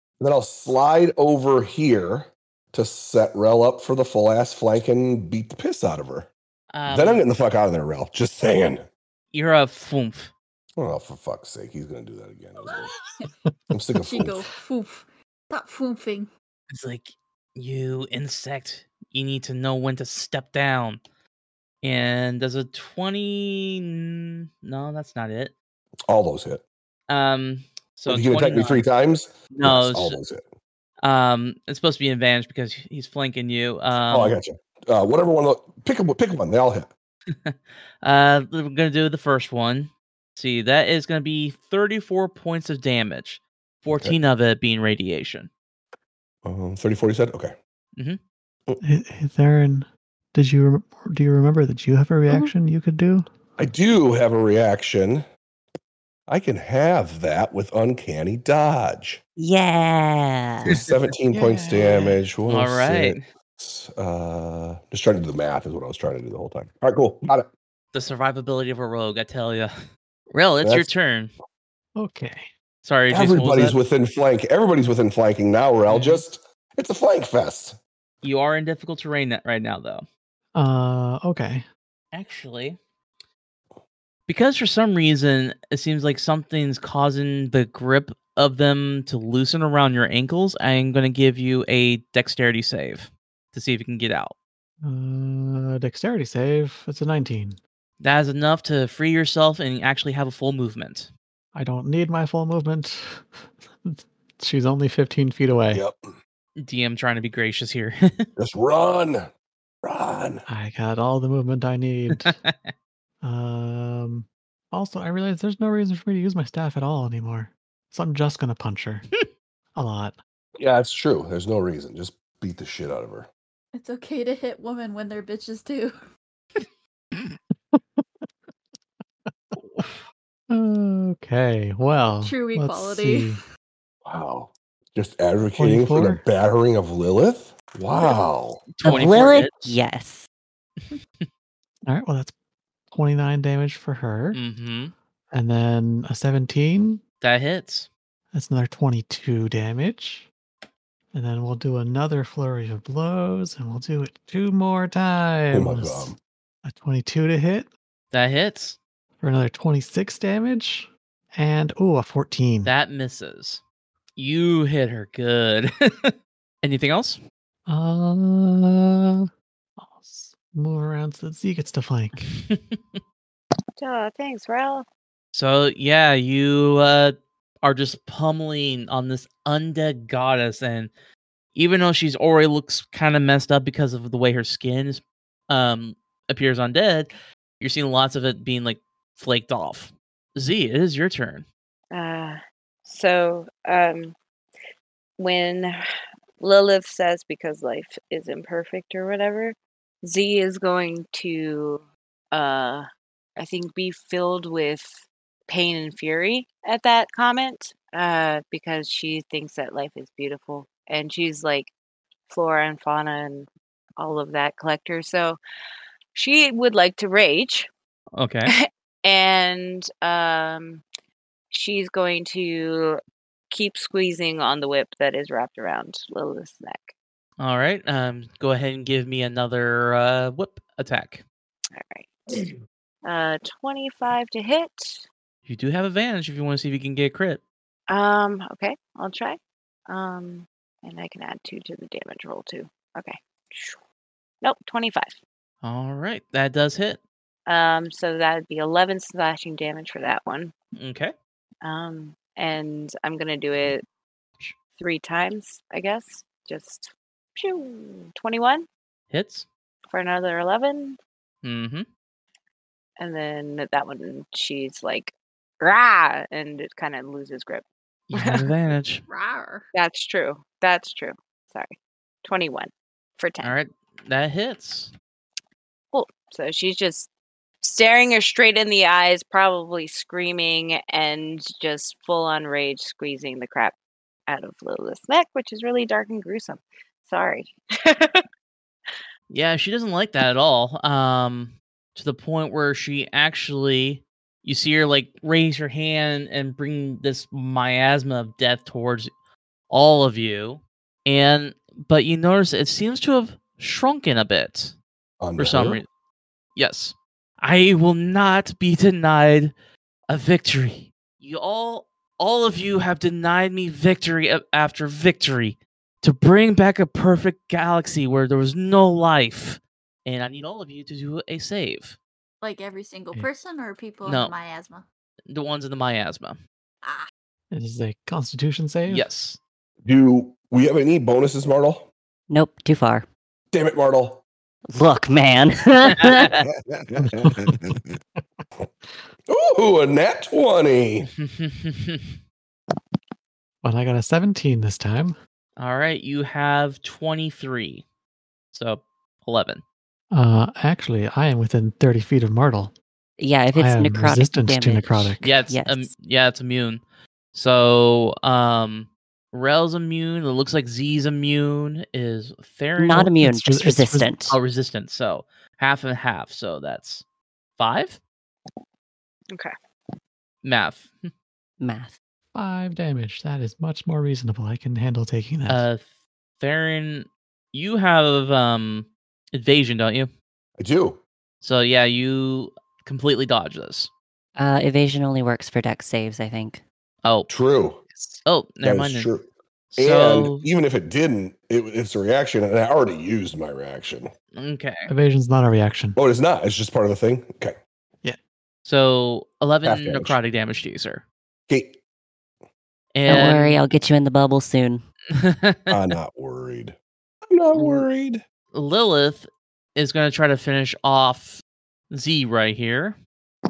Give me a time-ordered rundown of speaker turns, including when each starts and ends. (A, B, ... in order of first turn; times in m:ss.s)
0:00.2-0:06.3 A
0:06.7-0:07.3 B
0:06.9-0:08.8 A
0:09.3-0:10.3 B
0:10.8-0:12.9 A
0:13.7-0:14.5 A
0:14.0-0:16.3 C
0:16.7-0:21.0 B
0:21.8-0:25.5 B
0:26.1-0:26.6 A
0:27.1-0:28.9 B
0:28.1-0:30.5 A
0:29.5-0:30.2 B
0:31.0-0:34.4 B
0:34.1-0:36.9 A
0:37.3-0:45.5 B
0:46.4-0:47.6 A
0:48.8-0:53.3 D
0:53.6-0:55.3 A
0:56.3-0:59.2 A
0:59.4-1:00.8 E
1:00.6-1:07.5 A
1:01.3-1:02.2 D
1:02.5-1:03.3 B
1:07.9-1:09.7 B
1:10.3-1:11.3 B
1:10.6-1:10.9 A
1:12.0-1:12.5 D
1:12.8-1:13.8 B
1:13.1-1:17.8 A
1:15.9-1:16.2 B
1:18.2-1:20.1 B
1:20.6-1:21.7 D
1:22.1-1:22.8 B
1:24.3-1:34.4 B
1:34.8-1:37.6 D
1:38.0-1:41.1 B
1:41.5-1:45.8 D
1:45.7-1:46.2 A
1:46.6-1:48.3 B
1:48.4-1:49.3 A
1:49.8-1:50.4 A
1:50.5-1:52.4 D
1:52.1-1:52.7 B
1:53.2-1:59.1 D
1:59.8-2:00.2 D
2:00.6-2:03.3 A
2:03.7-2:06.0 C
2:07.7-2:08.3 D
2:09.3-2:09.9 D
2:09.6-2:10.0 B
2:10.5-2:13.4 D
2:12.2-2:13.4 C
2:14.0-2:18.7 A
2:15.6-2:16.2 D
2:18.7-2:19.5 B
2:18.8-2:20.3 E
2:20.8-2:21.3 B
2:21.9-2:22.4 D
2:22.9-2:24.4 D
2:24.3-2:24.9 B
2:25.3-2:27.0 D
2:27.2-2:27.9 B
2:28.3-2:30.3 D
2:31.1-2:36.1 D
2:35.5-2:36.2 A
2:36.6-2:37.7 D
2:38.1-2:38.8 B
2:39.2-2:42.7 D
2:42.6-2:43.6 B
2:44.2-2:47.2 B
2:47.7-2:49.3 D
2:49.8-2:52.3 D
2:52.2-2:53.0 B
2:53.8-2:54.9 F
2:55.3-3:00.9 B
3:01.6-3:11.5 B
3:11.9-3:14.2 F
3:15.2-3:15.8 F
3:16.4-3:31.7 F
3:32.3-3:35.4 F
3:36.1-3:37.7 F
3:38.2-3:38.5 B
3:38.5-3:40.8 F
3:41.5-3:43.0 F
3:43.5-3:46.9 F
3:47.4-3:51.2 B
3:51.7-3:52.5 F
3:53.1-3:55.0 F
3:55.5-3:57.4 B
3:57.9-4:03.8 F
4:04.4-4:05.2 F
4:05.6-4:07.0 B
4:07.5-4:10.5 F
4:10.8-4:11.1 B
4:11.6-4:13.8 F
4:14.8-4:18.7 F
4:19.1-4:19.5 B
4:19.9-4:21.0 F
4:21.4-4:21.9 B
4:23.0-4:28.5 F
4:28.1-4:29.0 B
4:29.1-4:29.7 C
4:29.7-4:33.6 F
4:33.4-4:34.9 B
4:35.9-4:37.1 F
4:37.6-4:43.8 F
4:44.3-4:48.2 F
4:49.3-4:59.1 B
4:59.7-5:04.8 B
5:05.2-5:05.8 A
5:05.4-5:05.9 B
5:06.6-5:09.5 B
5:10.1-5:22.0 B
5:22.4-5:24.8 C
5:24.0-5:24.3 B
5:25.3-5:26.4 B
5:26.8-5:27.1 C
5:27.5-5:29.1 D
5:28.9-5:29.4 B
5:29.8-5:31.9 A
5:32.3-5:33.1 E
5:33.5-5:34.2 A
5:34.7-5:36.4 E
5:35.9-5:36.3 B
5:36.6-5:37.9 A
5:37.0-5:38.4 D
5:39.3-5:41.1 A
5:41.2-5:42.2 B
5:43.6-5:45.2 D
5:45.6-5:47.8 B
5:48.5-5:49.6 B
5:50.1-5:52.7 D
5:53.2-5:55.9 E
5:53.5-5:55.4 D
5:55.2-5:56.8 B
5:57.3-6:03.1 B
6:02.8-6:04.4 E
6:03.2-6:04.1 D
6:04.3-6:07.0 B
6:07.6-6:08.0 B
6:10.4-6:11.1 B
6:11.6-6:12.0 E
6:12.3-6:15.7 D
6:15.5-6:20.1 B
6:20.6-6:21.0 A
6:21.4-6:23.9 B
6:24.4-6:26.6 E
6:27.0-6:27.3 B
6:27.3-6:27.8 A
6:27.9-6:28.2 D
6:28.2-6:29.1 B
6:28.6-6:34.1 A
6:29.7-6:30.5 B
6:34.3-6:34.9 B
6:34.9-6:36.0 D
6:36.0-6:37.6 A
6:38.6-6:41.0 B
6:39.6-6:40.2 A
6:41.5-6:41.8 A
6:42.9-6:43.6 B
6:43.1-6:44.8 E
6:45.2-6:45.8 B
6:45.7-6:46.8 A
6:47.3-6:48.2 A
6:47.6-6:47.8 B
6:48.5-6:53.0 B